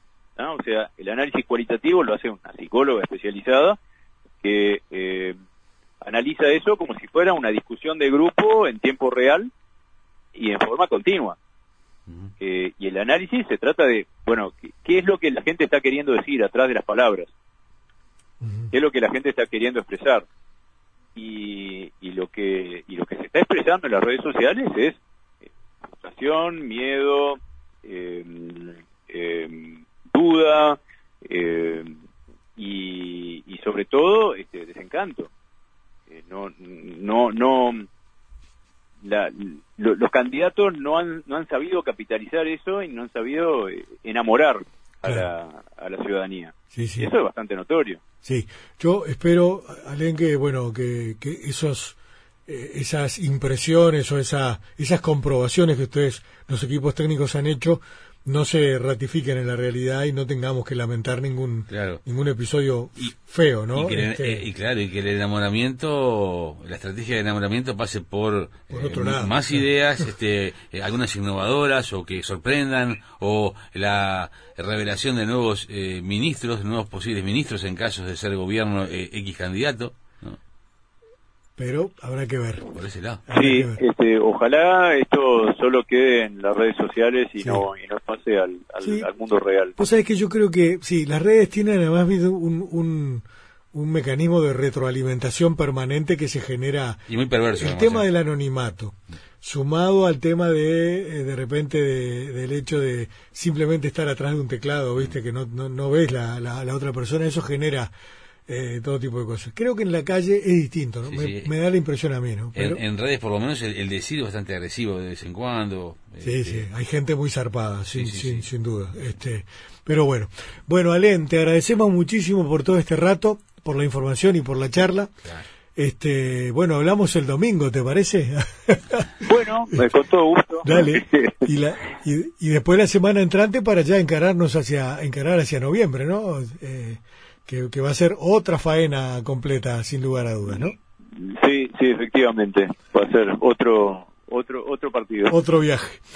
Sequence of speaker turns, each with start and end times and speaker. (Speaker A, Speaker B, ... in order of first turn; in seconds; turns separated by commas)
Speaker A: 0.4-3.8, Speaker A: 4.4-5.4, Speaker A: 6.0-9.5, Speaker A: 10.3-11.4, Speaker B: 12.1-12.3, Speaker A: 12.4-17.3, Speaker C: 18.4-18.7, Speaker A: 18.7-20.2, Speaker A: 21.1-25.0, Speaker A: 26.0-32.0, Speaker A: 32.5-35.3, Speaker A: 36.1-37.9, Speaker A: 39.0-48.0, Speaker C: 46.7-47.1, Speaker C: 48.2-64.4, Speaker B: 61.7-62.0, Speaker B: 63.7-80.4, Speaker C: 68.7-69.6, Speaker C: 81.6-83.8, Speaker B: 82.7-83.2, Speaker A: 83.3-89.8, Speaker C: 88.8-89.1, Speaker C: 89.8-97.0, Speaker B: 97.1-98.0, Speaker C: 97.6-107.9, Speaker C: 108.5-112.8, Speaker B: 111.1-111.5, Speaker B: 112.5-116.7, Speaker C: 116.2-125.1, Speaker B: 117.9-118.5, Speaker C: 125.8-129.8, Speaker A: 129.2-131.4, Speaker C: 130.6-140.8, Speaker A: 141.2-145.3, Speaker C: 145.3-146.0